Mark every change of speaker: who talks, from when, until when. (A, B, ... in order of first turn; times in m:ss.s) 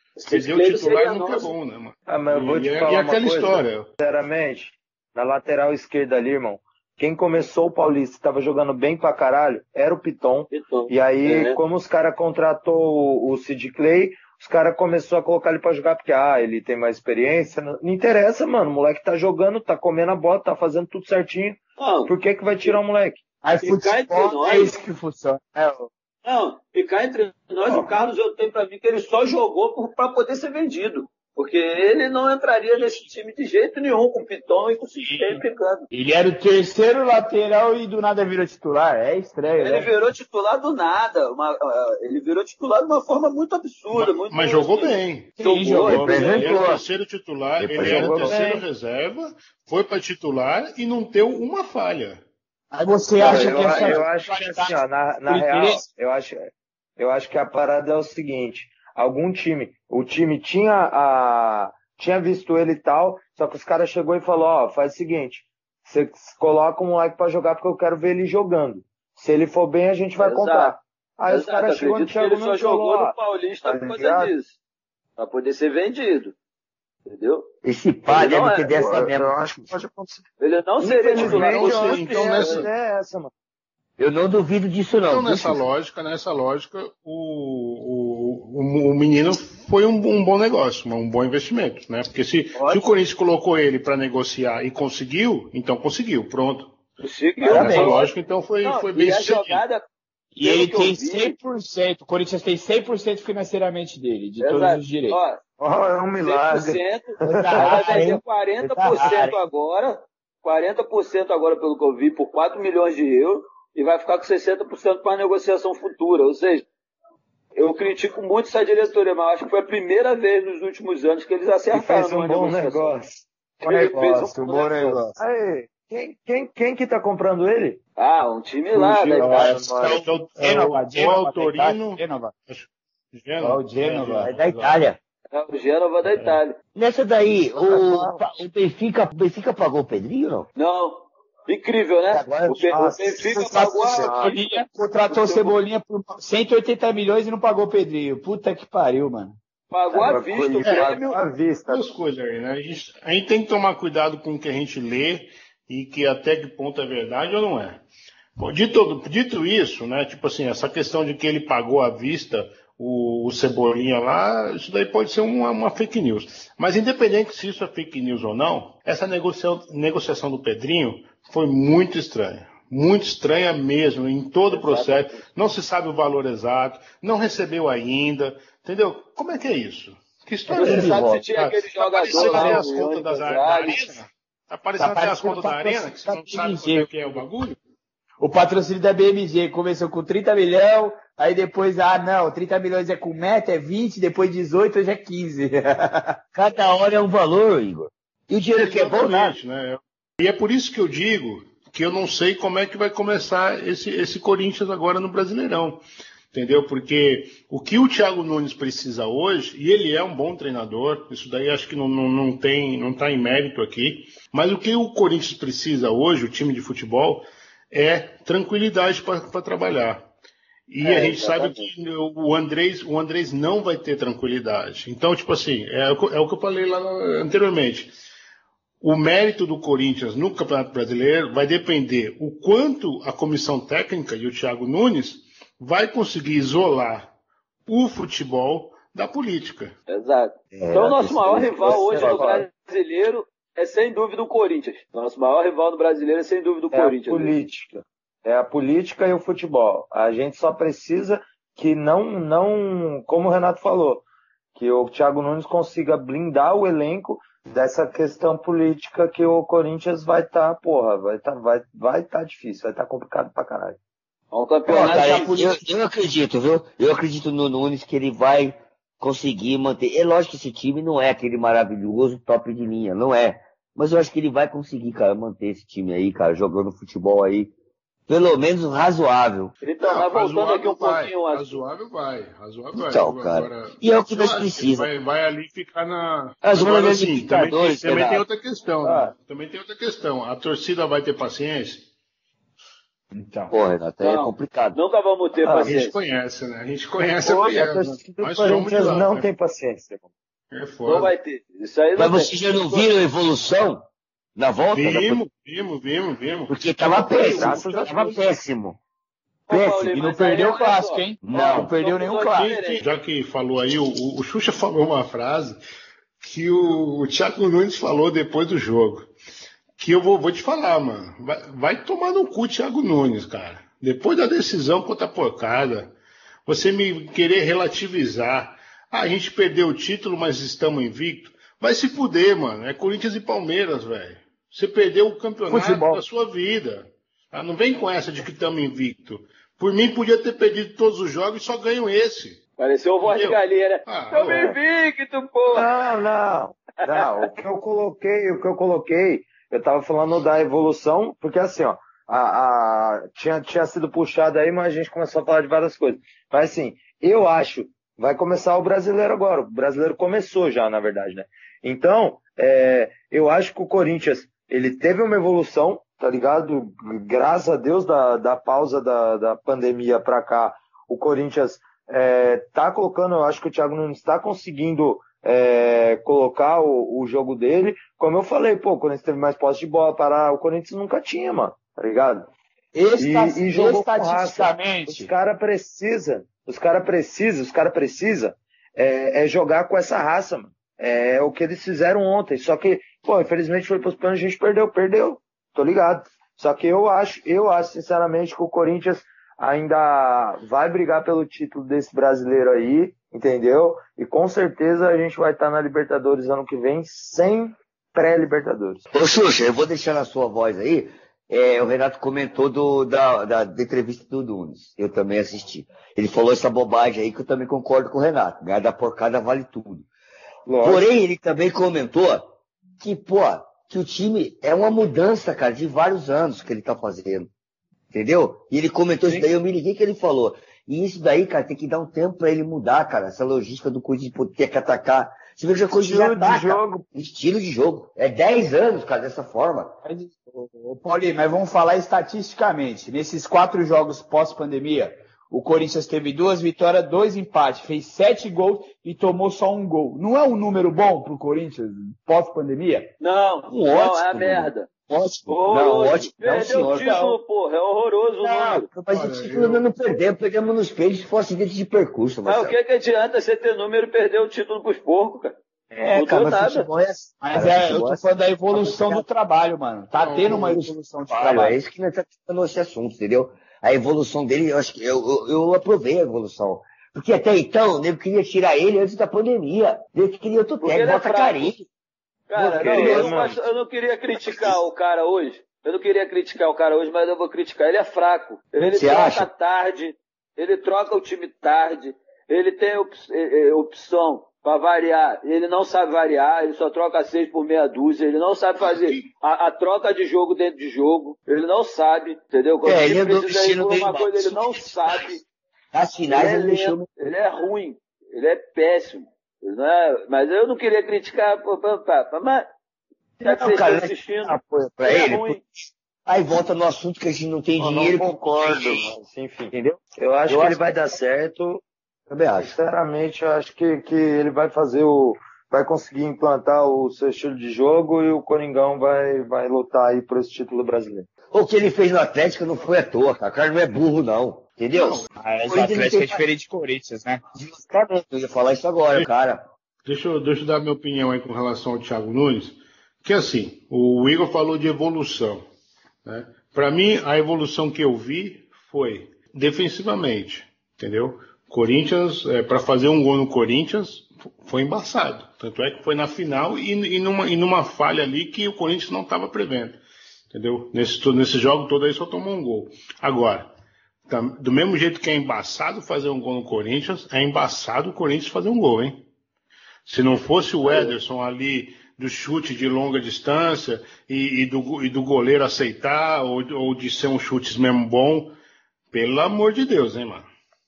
0:00.2-0:01.5 A
0:00.3-0:03.9 B
0:02.1-0:23.2 C
0:10.5-0:11.6 A
0:21.8-0:22.1 A
0:23.4-0:25.9 D
0:23.6-0:24.7 A
0:26.2-0:35.9 A
0:35.1-0:39.9 D
0:39.6-0:46.6 A
0:43.9-0:52.2 B
0:45.4-0:46.4 D
0:45.9-0:46.8 E
0:47.6-0:48.4 E
0:47.8-0:48.6 C
0:52.7-0:55.9 D
0:53.2-1:13.1 C
0:53.2-0:54.0 B
1:10.2-1:14.6 A
1:13.7-1:14.3 C
1:15.2-1:16.4 A
1:17.1-1:17.5 A
1:17.6-1:19.7 E
1:18.1-1:18.7 A
1:18.1-1:20.2 C
1:20.4-1:22.7 A
1:20.8-1:23.3 C
1:21.1-1:22.7 B
1:24.0-1:25.6 E
1:25.1-1:36.8 B
1:32.6-1:32.8 A
1:37.0-1:38.1 A
1:37.4-1:39.6 B
1:37.5-1:37.9 E
1:38.6-1:39.8 A
1:40.4-1:45.2 D
1:40.4-1:41.4 A
1:44.4-1:45.4 A
1:45.6-1:47.6 C
1:46.2-1:56.6 A
1:47.3-1:49.4 E
1:47.3-1:48.2 D
1:57.6-2:03.0 A
2:01.7-2:07.8 C
2:03.6-2:04.9 A
2:04.4-2:05.1 D
2:08.0-2:09.4 A
2:08.7-2:14.8 B
2:09.1-2:10.0 C
2:09.2-2:12.3 D
2:13.4-2:14.3 D
2:14.2-2:15.0 E
2:15.3-2:16.6 A
2:16.1-2:16.4 B
2:16.8-2:20.5 E
2:17.6-2:18.2 C
2:20.6-2:25.5 A
2:22.1-2:22.8 E
2:22.7-2:24.3 C
2:23.3-2:29.4 D
2:29.7-2:31.2 A
2:29.9-2:31.8 C
2:30.6-2:31.0 B
2:31.7-2:37.8 B
2:38.4-3:07.6 B
2:54.5-2:55.2 A
3:00.5-3:01.2 E
3:00.5-3:04.0 A
3:04.8-3:06.9 D
3:08.2-3:16.2 D
3:16.3-3:19.3 E
3:18.6-3:25.8 B
3:26.3-3:40.1 B
3:40.7-3:47.9 B
3:40.8-3:41.7 C
3:48.8-3:57.1 B
3:57.7-3:59.7 B
3:59.9-4:07.3 A
4:00.5-4:02.3 E
4:01.6-4:02.5 C
4:06.7-4:14.0 C
4:14.6-4:23.8 C
4:24.3-4:25.5 A
4:24.7-4:37.5 E
4:24.7-4:25.6 D
4:38.1-4:39.5 E
4:39.6-4:41.6 A
4:39.8-4:51.9 B
4:42.7-4:44.9 E
4:46.4-4:48.2 E
4:48.8-4:49.1 C
4:53.1-4:53.5 D
4:53.5-4:54.8 E
4:54.0-4:55.9 A
4:55.4-4:55.8 C
4:55.6-4:59.3 B
4:57.3-5:00.1 C
4:57.3-4:57.6 A
5:00.5-5:01.1 B
5:00.9-5:02.9 A
5:02.0-5:05.2 E
5:04.7-5:06.6 B
5:06.5-5:08.8 E
5:07.0-5:08.2 C
5:07.1-5:08.1 D
5:09.5-5:12.8 A
5:09.5-5:09.9 E
5:09.9-5:12.6 D
5:11.2-5:11.7 E
5:12.4-5:15.6 B
5:16.2-5:19.1 B
5:19.8-5:25.9 B
5:26.5-5:42.4 B
5:35.5-5:36.0 D
5:42.6-5:45.7 A
5:43.0-5:44.6 B
5:45.5-6:22.3 C
5:46.9-5:47.2 A
6:22.8-6:25.1 D
6:23.0-6:48.8 C
6:48.9-6:59.9 E
7:00.5-7:00.9 C
7:00.6-7:07.3 E
7:07.9-7:19.8 E
7:15.8-7:16.8 C
7:19.8-7:32.9 D
7:33.0-7:34.7 A
7:33.5-7:37.2 E
7:35.3-7:38.7 A
7:38.2-7:42.6 E
7:38.9-7:39.7 B
7:42.2-7:45.4 A
7:45.8-7:46.5 D
7:45.8-7:49.0 E
7:45.9-7:46.7 A
7:47.2-7:51.6 D
7:50.0-8:01.7 E
8:00.6-8:01.6 A
8:02.3-8:25.2 A
8:02.3-8:03.4 E
8:02.6-8:03.5 C
8:04.2-8:04.6 E
8:08.6-8:09.3 E
8:18.6-8:19.1 B
8:22.6-8:25.2 E
8:25.7-8:26.9 E
8:26.1-8:32.5 A
8:33.2-8:34.3 A
8:33.2-8:38.9 E
8:34.8-8:35.4 A
8:37.6-8:41.6 C
8:39.5-8:40.6 E
8:42.1-8:42.6 E
8:42.4-8:51.1 C
8:51.3-8:56.2 E
8:54.7-8:55.1 B
8:55.2-8:57.2 D
8:57.4-8:59.4 E
8:59.8-9:05.4 B
9:06.1-9:19.8 B
9:20.3-9:23.5 B
9:24.1-9:29.0 B
9:29.9-9:38.3 B
9:38.9-9:40.3 B